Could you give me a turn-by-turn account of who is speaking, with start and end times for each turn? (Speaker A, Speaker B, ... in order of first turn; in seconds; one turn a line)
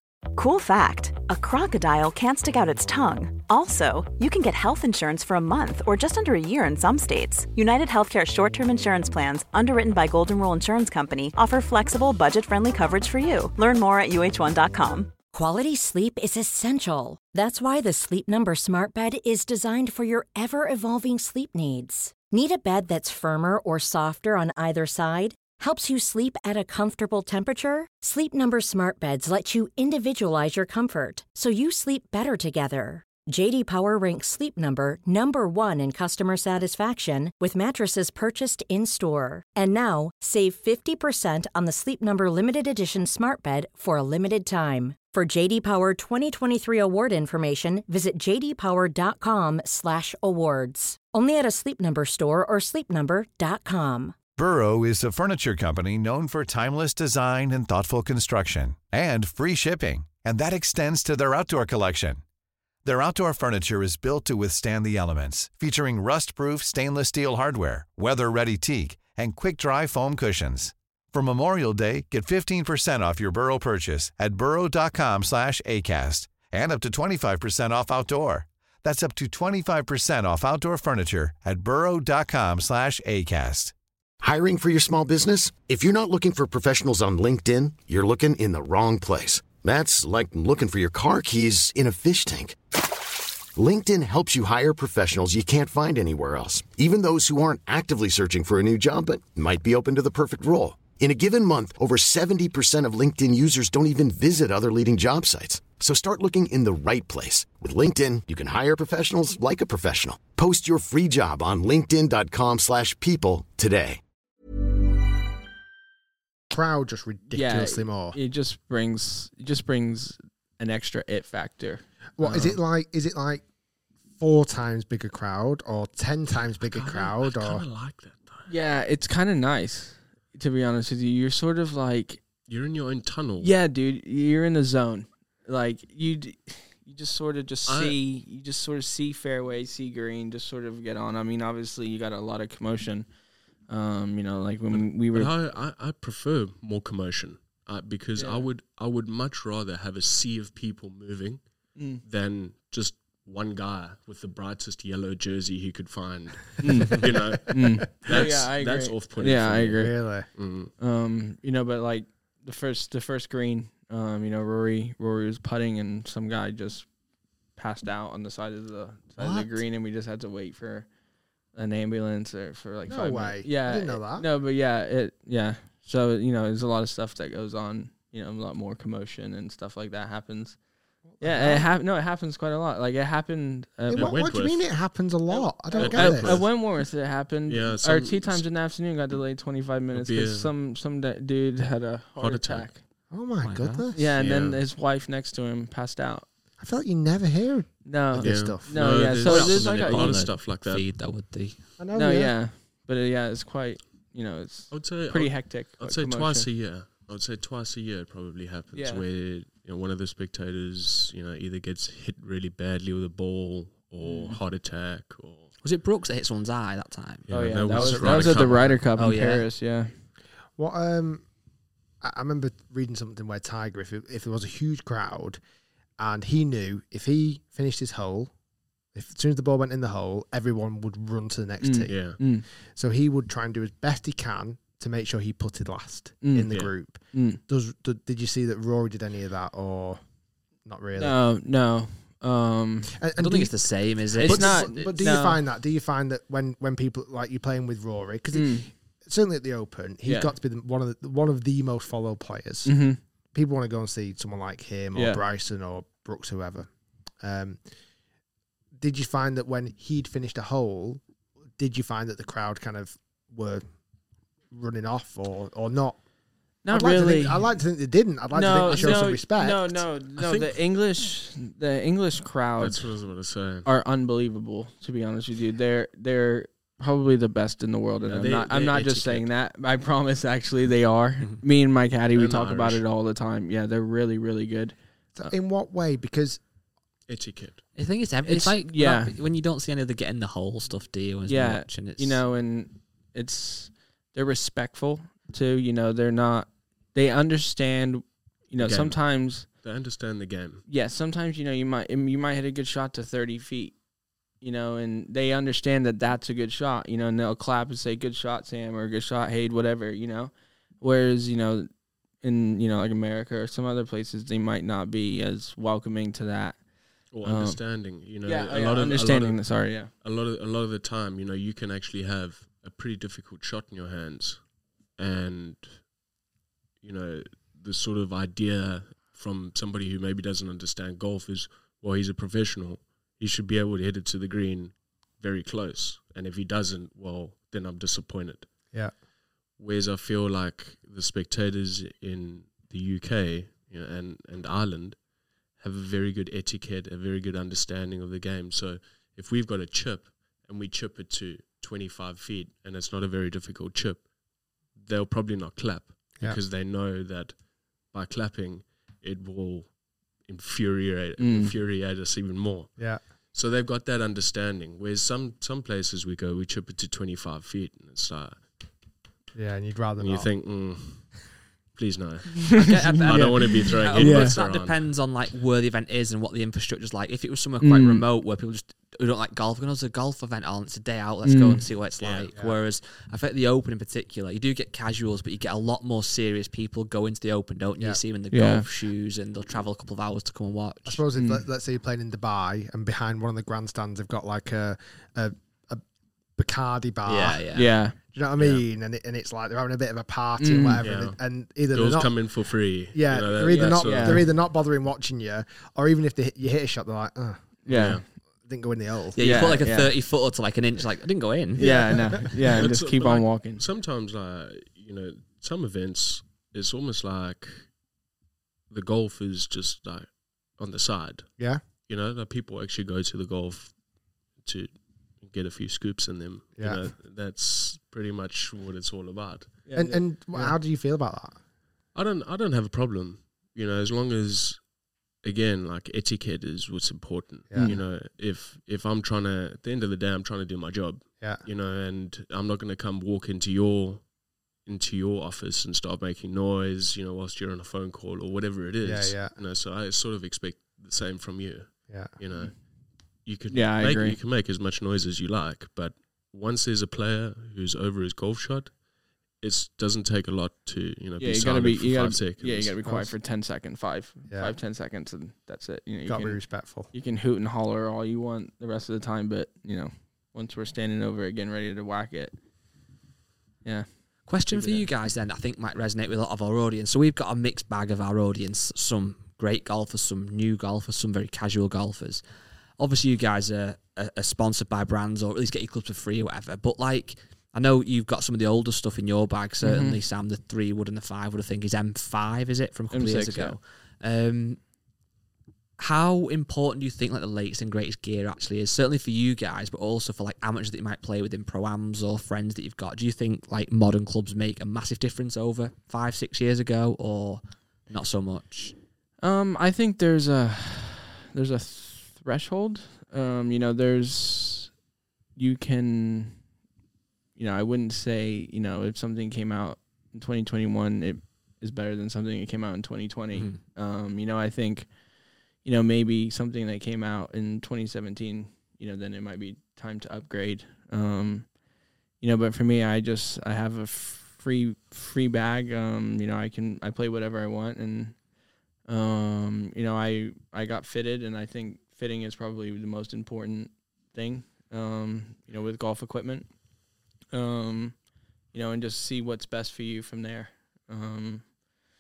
Speaker A: 0.3-15.1
Speaker B: 15.3-54.1
Speaker C: 54.4-62.2
Speaker C: 62.8-83.7
Speaker D: 84.2-92.6
Speaker D: 93.5-114.0
Speaker E: 116.5-118.2
Speaker F: 117.3-122.6
Speaker E: 122.2-123.4
Speaker E: 124.2-127.6
Speaker G: 126.6-128.5
Speaker F: 128.5-132.2
Speaker G: 132.5-133.5
Speaker F: 133.4-143.1
Speaker G: 137.7-138.0
Speaker F: 143.7-145.3
Speaker G: 144.7-151.4
Speaker F: 148.2-148.5
Speaker F: 151.8-152.0
Speaker G: 152.0-160.7
Speaker F: 156.6-159.9
Speaker E: 159.8-160.3
Speaker F: 160.8-166.9
Speaker F: 167.6-170.9
Speaker E: 169.2-169.5
Speaker F: 171.5-180.6
Speaker E: 172.9-174.2
Speaker E: 181.1-181.7
Speaker F: 181.2-184.2
Speaker E: 183.9-186.4
Speaker G: 183.9-184.7
Speaker F: 185.3-192.8
Speaker G: 185.8-186.7
Speaker G: 187.4-188.4
Speaker G: 189.9-190.5
Speaker G: 192.2-192.7
Speaker E: 193.1-194.1
Speaker H: 193.4-193.9
Speaker F: 193.9-196.2
Speaker G: 194.2-194.6
Speaker E: 196.6-198.9
Speaker F: 197.8-200.2
Speaker G: 198.2-200.8
Speaker H: 199.2-201.6
Speaker E: 201.8-202.3
Speaker F: 201.9-206.5
Speaker G: 204.7-215.5
Speaker F: 208.7-209.0
Speaker F: 214.0-214.4
Speaker H: 215.6-217.3
Speaker G: 217.3-218.8
Speaker F: 217.3-219.9
Speaker E: 217.7-218.7
Speaker H: 218.9-219.4
Speaker E: 220.6-221.2
Speaker E: 222.0-225.4
Speaker E: 226.0-228.3
Speaker E: 228.9-240.0
Speaker F: 231.6-232.4
Speaker G: 231.9-232.2
Speaker F: 236.2-236.6
Speaker F: 237.1-237.4
Speaker E: 240.6-241.2
Speaker F: 240.9-242.9
Speaker E: 242.9-243.7
Speaker H: 243.2-245.2
Speaker F: 244.2-245.4
Speaker E: 244.2-252.8
Speaker F: 248.3-248.7
Speaker F: 250.0-250.3
Speaker F: 252.6-253.0
Speaker E: 253.3-256.7
Speaker F: 254.9-255.2
Speaker E: 257.2-257.6
Speaker E: 258.8-261.0
Speaker E: 261.6-263.6
Speaker E: 264.5-266.0
Speaker F: 266.6-267.5
Speaker E: 266.7-269.8
Speaker F: 268.3-272.9
Speaker G: 268.7-269.0
Speaker G: 270.2-270.6
Speaker G: 272.6-273.7
Speaker F: 273.6-285.3
Speaker G: 278.0-279.3
Speaker G: 282.1-282.8
Speaker E: 285.1-286.4
Speaker G: 287.1-287.6
Speaker H: 287.8-292.2
Speaker F: 288.2-289.1
Speaker F: 291.2-299.4
Speaker G: 298.6-300.6
Speaker F: 300.7-303.8
Speaker F: 304.4-311.7
Speaker F: 312.2-316.6
Speaker G: 317.1-324.4
Speaker F: 317.2-317.6
Speaker F: 318.2-319.9
Speaker G: 325.0-325.8
Speaker G: 326.8-338.5
Speaker G: 339.6-345.0
Speaker G: 345.6-354.1
Speaker G: 354.7-357.4
Speaker G: 357.9-359.7
Speaker G: 360.2-362.7
Speaker F: 361.2-361.5
Speaker G: 363.3-368.4
Speaker E: 369.3-370.3
Speaker G: 370.0-374.8
Speaker H: 372.5-391.0
Speaker F: 372.6-374.4
Speaker F: 377.6-378.0
Speaker F: 381.2-381.6
Speaker G: 382.0-382.3
Speaker F: 388.3-388.6
Speaker E: 390.9-395.8
Speaker F: 391.1-391.4
Speaker E: 396.4-397.4
Speaker H: 397.1-397.7
Speaker F: 397.5-397.9
Speaker E: 398.1-402.3
Speaker G: 398.4-398.6
Speaker F: 400.4-400.8
Speaker G: 400.8-401.2
Speaker G: 401.7-404.3
Speaker E: 402.9-407.4
Speaker F: 403.5-404.2
Speaker F: 407.6-408.0
Speaker G: 407.7-408.0
Speaker E: 408.4-409.2
Speaker H: 409.1-411.9
Speaker F: 409.2-409.9
Speaker F: 411.6-413.6
Speaker E: 411.6-412.2
Speaker G: 412.5-417.7
Speaker G: 418.7-421.3
Speaker G: 421.9-423.7
Speaker G: 424.4-424.7
Speaker G: 425.2-429.5
Speaker E: 426.6-426.8
Speaker F: 429.7-430.5
Speaker E: 429.7-431.4
Speaker G: 431.9-434.6
Speaker G: 435.2-444.1
Speaker E: 437.5-437.8
Speaker F: 437.6-437.8
Speaker G: 444.6-452.5
Speaker E: 448.8-449.3
Speaker G: 453.2-458.7
Speaker F: 453.5-454.2
Speaker G: 459.4-462.7
Speaker F: 461.2-472.4
Speaker E: 462.8-463.1
Speaker E: 464.3-464.6
Speaker E: 466.1-466.9
Speaker F: 473.6-474.9
Speaker H: 474.3-482.2
Speaker H: 482.8-494.6
Speaker F: 489.6-490.0
Speaker F: 492.9-493.6
Speaker H: 495.8-508.7
Speaker F: 509.2-514.7
Speaker F: 515.4-516.4
Speaker F: 517.4-525.0
Speaker H: 523.3-523.6
Speaker F: 525.6-531.5
Speaker F: 532.2-538.2
Speaker F: 538.9-546.6
Speaker F: 547.3-551.5